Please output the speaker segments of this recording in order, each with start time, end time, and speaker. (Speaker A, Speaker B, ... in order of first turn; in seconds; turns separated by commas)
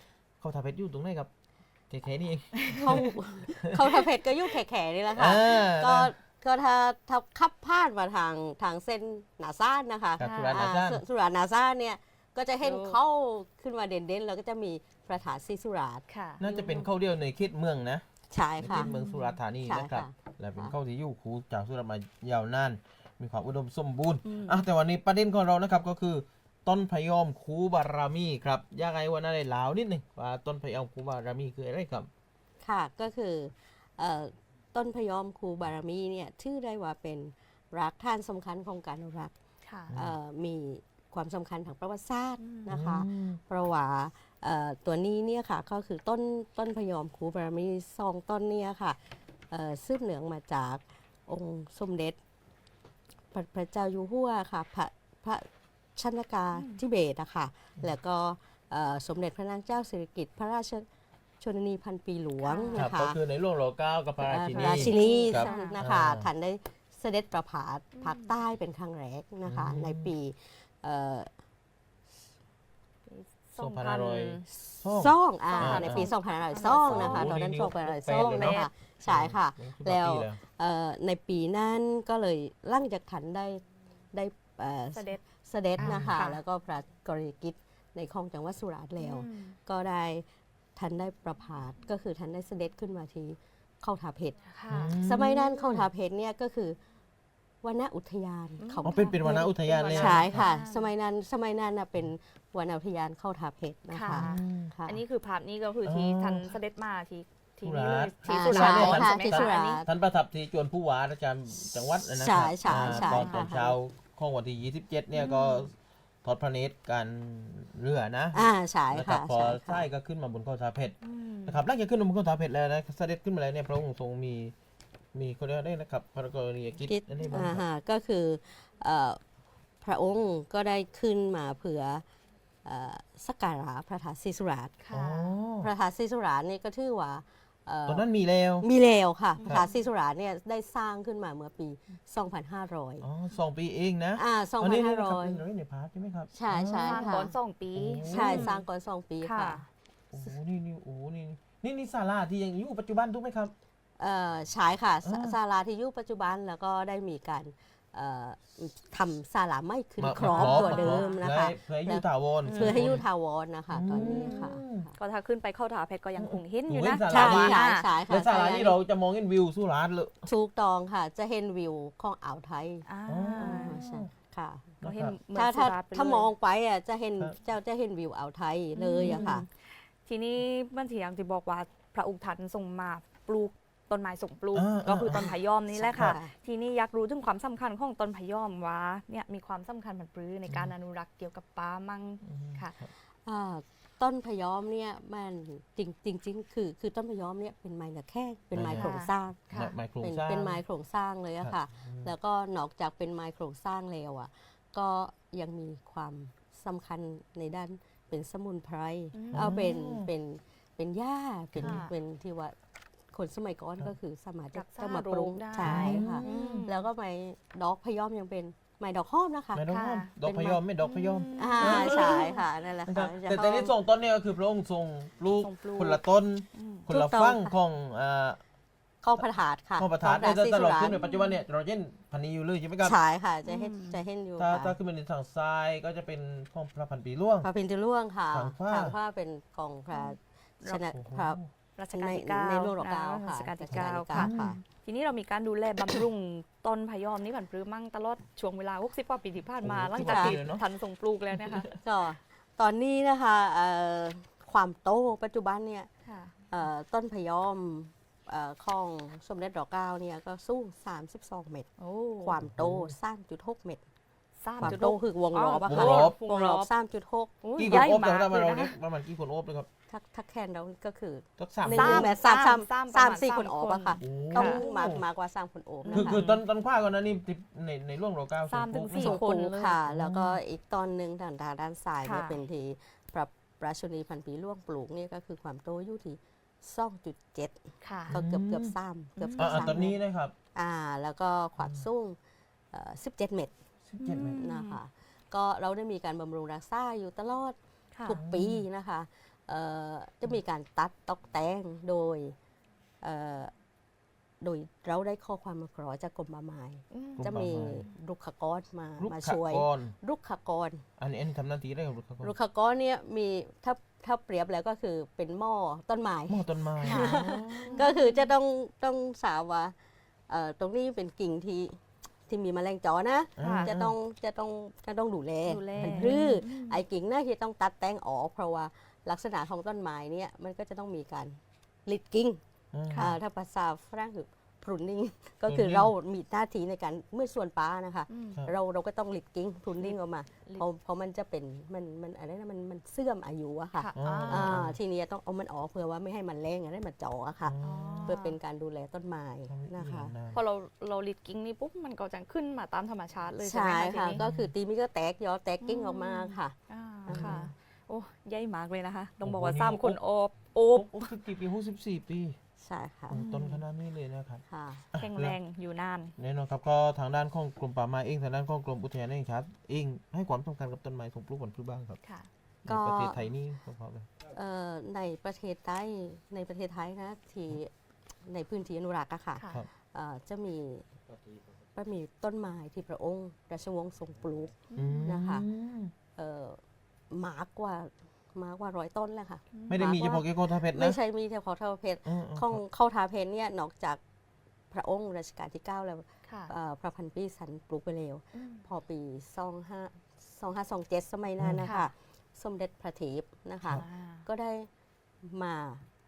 Speaker A: 0.4-1.3, Speaker A: 1.9-3.1, Speaker B: 2.5-3.0, Speaker C: 2.7-16.6, Speaker A: 5.1-6.1, Speaker A: 10.2-11.0, Speaker B: 10.2-10.6, Speaker B: 12.6-13.0, Speaker B: 16.1-16.9, Speaker A: 16.4-18.0, Speaker C: 18.3-18.9, Speaker A: 18.6-32.1, Speaker B: 18.7-19.4, Speaker C: 19.6-20.7, Speaker B: 24.2-24.6, Speaker C: 32.6-39.3, Speaker B: 39.6-39.9, Speaker A: 39.9-40.2, Speaker C: 39.9-49.0, Speaker B: 42.4-42.7, Speaker A: 42.7-43.4, Speaker C: 49.5-52.2, Speaker C: 53.3-60.8, Speaker B: 56.5-56.8, Speaker C: 61.4-63.2, Speaker B: 62.4-62.9, Speaker A: 62.7-66.3, Speaker C: 64.2-71.3, Speaker B: 64.8-65.7, Speaker B: 67.9-68.3, Speaker A: 69.4-70.1, Speaker B: 73.1-74.4, Speaker A: 73.6-76.1, Speaker C: 74.5-96.8, Speaker B: 75.5-77.3, Speaker A: 76.8-80.4, Speaker B: 78.1-78.7, Speaker B: 84.9-85.2, Speaker A: 85.8-86.2, Speaker B: 85.8-86.4, Speaker B: 89.0-89.6, Speaker B: 94.5-95.0, Speaker A: 94.7-95.9, Speaker C: 97.6-99.4, Speaker B: 98.6-100.9, Speaker A: 98.8-100.5, Speaker C: 99.9-105.0, Speaker B: 103.9-109.8, Speaker A: 104.1-104.7, Speaker A: 105.8-106.6, Speaker A: 107.6-115.7, Speaker C: 108.3-109.9, Speaker C: 112.0-113.7, Speaker B: 112.7-113.6, Speaker B: 115.1-115.7, Speaker A: 116.2-124.5, Speaker C: 118.3-119.8, Speaker B: 121.0-121.6, Speaker A: 125.1-127.6, Speaker C: 126.8-129.2, Speaker B: 127.2-127.4, Speaker C: 129.8-132.0, Speaker C: 132.6-134.7, Speaker B: 134.8-135.3, Speaker A: 134.9-135.7, Speaker C: 135.6-138.1, Speaker A: 137.9-138.7, Speaker C: 138.6-143.1, Speaker B: 139.4-139.7, Speaker A: 143.0-147.1, Speaker C: 144.2-145.4, Speaker C: 146.3-147.3, Speaker B: 146.8-148.6, Speaker A: 147.7-148.6, Speaker C: 148.0-149.6, Speaker B: 149.2-149.7, Speaker A: 150.1-153.5, Speaker C: 154.0-164.9, Speaker A: 155.0-155.4, Speaker A: 160.0-163.0, Speaker B: 160.2-161.2, Speaker B: 162.4-163.0, Speaker A: 163.7-164.9, Speaker B: 163.9-167.9, Speaker A: 166.2-170.3, Speaker C: 167.1-168.8, Speaker C: 170.2-174.7, Speaker B: 172.8-173.8, Speaker A: 173.1-174.1, Speaker A: 174.8-175.2, Speaker B: 174.8-176.3, Speaker C: 175.3-179.4, Speaker B: 178.8-192.8, Speaker A: 179.0-179.4, Speaker A: 184.5-185.3, Speaker C: 185.1-186.3, Speaker A: 190.5-190.8, Speaker A: 192.2-192.9, Speaker C: 193.2-199.4, Speaker A: 198.5-199.0, Speaker B: 198.7-199.8, Speaker A: 199.5-200.6, Speaker C: 200.0-212.5, Speaker A: 201.4-202.1, Speaker B: 209.1-209.6, Speaker A: 209.3-210.1, Speaker A: 211.5-211.8, Speaker B: 211.6-211.9, Speaker C: 213.1-219.6, Speaker B: 214.5-216.8, Speaker A: 215.6-216.7, Speaker A: 219.5-222.3, Speaker B: 219.7-220.1, Speaker C: 220.2-220.6, Speaker B: 220.8-222.4, Speaker C: 221.3-223.7, Speaker A: 222.9-228.4, Speaker B: 225.3-226.0, Speaker B: 226.5-226.8, Speaker C: 226.9-227.6, Speaker C: 229.0-231.0, Speaker A: 229.2-233.0, Speaker B: 230.9-231.4, Speaker C: 232.8-234.8, Speaker B: 233.4-234.0, Speaker A: 234.4-237.5, Speaker C: 237.4-241.4, Speaker A: 238.3-238.9, Speaker B: 239.9-240.8, Speaker A: 240.9-241.5, Speaker B: 241.8-251.7, Speaker C: 241.9-244.6, Speaker A: 243.7-244.6, Speaker A: 249.6-250.6, Speaker C: 250.0-250.3, Speaker A: 251.3-251.8, Speaker C: 251.7-255.9, Speaker B: 256.1-256.3, Speaker C: 256.5-263.8, Speaker B: 261.8-262.4, Speaker A: 262.4-262.9, Speaker B: 264.4-266.7, Speaker C: 264.6-267.9, Speaker A: 265.6-266.2, Speaker B: 267.4-268.8, Speaker A: 267.6-269.7, Speaker C: 269.9-276.2, Speaker A: 271.4-272.1, Speaker B: 271.7-274.7, Speaker A: 274.0-275.0, Speaker B: 275.8-276.4, Speaker A: 275.9-279.2, Speaker B: 278.5-279.8, Speaker C: 278.9-290.0, Speaker A: 279.9-280.4, Speaker B: 282.0-282.4, Speaker B: 287.8-288.2, Speaker A: 288.1-288.7, Speaker B: 289.2-289.9, Speaker A: 289.4-290.3, Speaker C: 290.5-292.2, Speaker A: 291.6-291.8, Speaker C: 292.7-293.5, Speaker A: 293.9-294.5, Speaker B: 294.0-294.8, Speaker C: 294.4-302.3, Speaker A: 298.1-298.6, Speaker C: 303.0-303.5, Speaker C: 304.4-310.8, Speaker B: 306.9-307.2, Speaker A: 307.2-307.9, Speaker A: 309.0-309.9, Speaker A: 311.0-312.3, Speaker C: 312.2-319.7, Speaker A: 316.3-317.9, Speaker B: 316.8-318.3, Speaker C: 320.3-332.4, Speaker A: 323.4-323.9, Speaker B: 323.4-323.7, Speaker B: 325.4-326.8, Speaker A: 325.7-326.3, Speaker A: 332.7-333.2, Speaker B: 332.9-333.1, Speaker C: 332.9-350.1, Speaker A: 335.4-335.9, Speaker B: 338.1-338.4, Speaker B: 339.8-340.6, Speaker B: 343.8-344.6, Speaker A: 343.9-344.8, Speaker A: 347.4-348.2, Speaker B: 347.6-348.4, Speaker A: 349.5-350.4, Speaker B: 350.3-354.2, Speaker C: 353.4-356.5, Speaker A: 354.2-354.5, Speaker B: 355.6-361.1, Speaker A: 357.1-357.5, Speaker C: 357.1-357.4, Speaker A: 359.2-360.0, Speaker A: 360.7-362.4, Speaker C: 362.6-363.2, Speaker A: 363.1-364.4, Speaker B: 363.1-363.6, Speaker C: 364.5-364.8, Speaker A: 364.9-365.4, Speaker B: 365.0-366.1, Speaker A: 366.2-372.0, Speaker B: 372.0-372.3, Speaker A: 372.6-374.1, Speaker C: 372.6-373.2, Speaker C: 374.2-377.7, Speaker C: 378.2-380.9, Speaker B: 379.4-379.6, Speaker C: 381.7-385.5, Speaker B: 384.7-385.1, Speaker A: 384.7-385.9, Speaker C: 386.1-386.6, Speaker C: 387.1-394.0, Speaker B: 389.5-389.9, Speaker A: 389.7-391.0, Speaker A: 392.1-392.6, Speaker C: 394.7-404.7, Speaker B: 396.2-396.5, Speaker B: 398.3-398.6, Speaker A: 401.4-401.7, Speaker B: 401.6-401.9, Speaker B: 403.8-404.2, Speaker C: 405.2-405.8